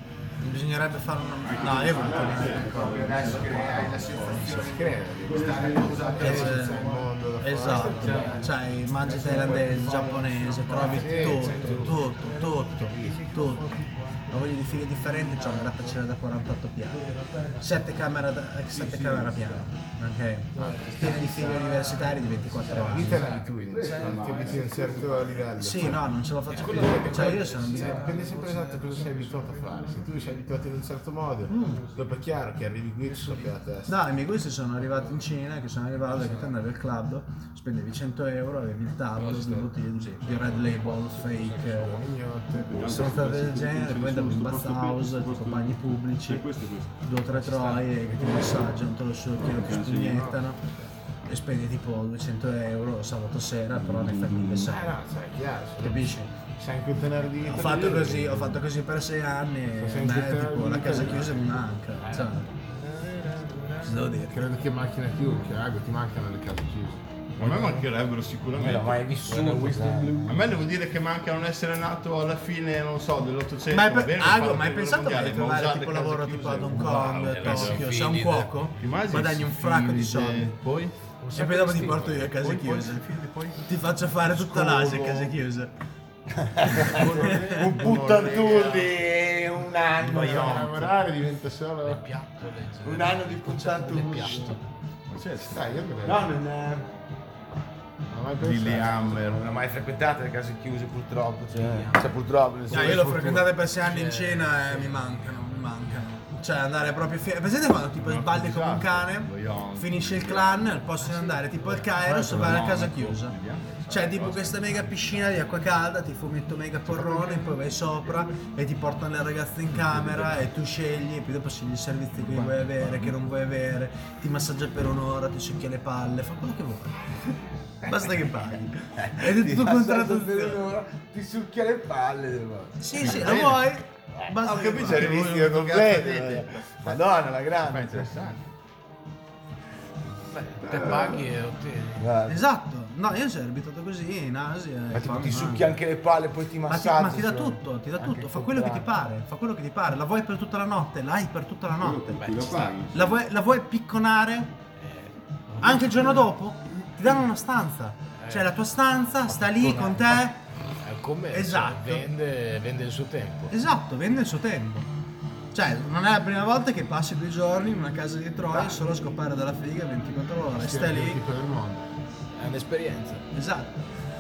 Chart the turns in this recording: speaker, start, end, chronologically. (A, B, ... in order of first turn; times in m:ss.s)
0:00.4-0:02.8 A
0:01.4-0:04.5 B
0:01.8-0:07.0 C
0:03.0-0:08.5 D
0:05.2-0:06.3 B
0:06.2-0:06.9 A
0:07.4-0:13.6 A
0:07.6-0:08.5 E
0:08.1-0:08.4 C
0:09.0-0:16.0 E
0:09.2-0:09.7 D
0:09.4-0:09.6 C
0:10.7-0:12.1 D
0:12.9-0:13.5 D
0:14.3-0:17.0 A
0:16.9-0:17.9 E
0:17.6-0:23.3 A
0:18.7-0:19.6 B
0:20.6-0:24.5 E
0:20.6-0:21.5 D
0:22.7-0:26.0 D
0:23.8-0:26.0 B
0:25.6-0:28.2 A
0:26.5-0:30.1 E
0:26.6-0:34.0 D
0:31.5-0:31.8 A
0:31.5-0:32.2 E
0:33.0-0:33.5 E
0:33.9-0:41.9 A
0:34.8-0:35.3 E
0:36.1-0:36.6 E
0:39.2-0:42.1 E
0:41.9-0:43.0 D
0:42.6-0:47.0 B
0:42.8-0:46.5 A
0:47.0-0:50.6 A
0:47.3-0:48.3 E
0:49.4-0:50.3 B
0:49.9-0:50.4 D
0:51.3-0:54.9 A
0:53.7-0:54.7 B
0:54.6-0:58.6 D
0:55.8-0:56.3 A
0:57.4-1:02.5 A
0:59.8-1:01.4 D
1:02.1-1:04.0 E
1:03.8-1:04.4 A
1:04.3-1:07.8 D
1:07.4-1:09.0 B
1:08.6-1:10.4 C
1:09.3-1:10.1 E
1:10.3-1:17.9 B
1:13.7-1:20.5 A
1:17.0-1:18.5 E
1:18.8-1:20.9 B
1:21.2-1:23.5 E
1:21.4-1:23.0 A
1:23.6-1:25.7 A
1:24.3-1:25.3 C
1:26.4-1:31.0 C
1:26.8-1:27.7 A
1:26.9-1:29.0 B
1:27.0-1:27.2 D
1:30.0-1:32.0 D
1:30.2-1:30.6 B
1:31.8-1:34.6 E
1:32.8-1:34.6 C
1:35.1-1:35.6 B
1:35.4-1:36.3 D
1:36.0-1:36.9 C
1:38.1-1:39.2 D
1:38.4-1:39.4 B
1:39.3-1:43.5 C
1:41.5-1:42.2 E
1:42.7-1:46.0 E
1:42.7-1:53.3 A
1:48.0-1:50.8 B
1:51.0-1:51.9 E
1:51.9-1:55.4 B
1:53.9-2:07.0 A
1:59.7-2:00.4 B
2:02.2-2:03.2 B
2:07.8-2:10.6 A
2:09.0-2:13.4 C
2:12.8-2:15.1 A
2:13.0-2:13.7 B
2:14.2-2:18.1 C
2:14.4-2:17.0 B
2:17.7-2:18.4 B
2:20.3-2:22.0 E
2:20.6-2:21.2 C
2:22.0-2:22.4 C
2:22.3-2:25.8 A
2:24.9-2:28.9 C
2:26.7-2:34.5 A
2:31.8-2:33.2 B
2:32.1-2:32.7 E
2:34.8-2:36.2 E
2:35.6-2:40.4 A
2:38.2-2:38.5 E
2:39.3-2:40.3 E
2:40.8-2:43.5 E
2:41.3-2:42.1 A
2:43.5-2:44.9 A
2:45.5-2:51.2 A
2:50.6-2:51.8 D
2:52.4-2:53.2 E
2:53.3-2:53.8 A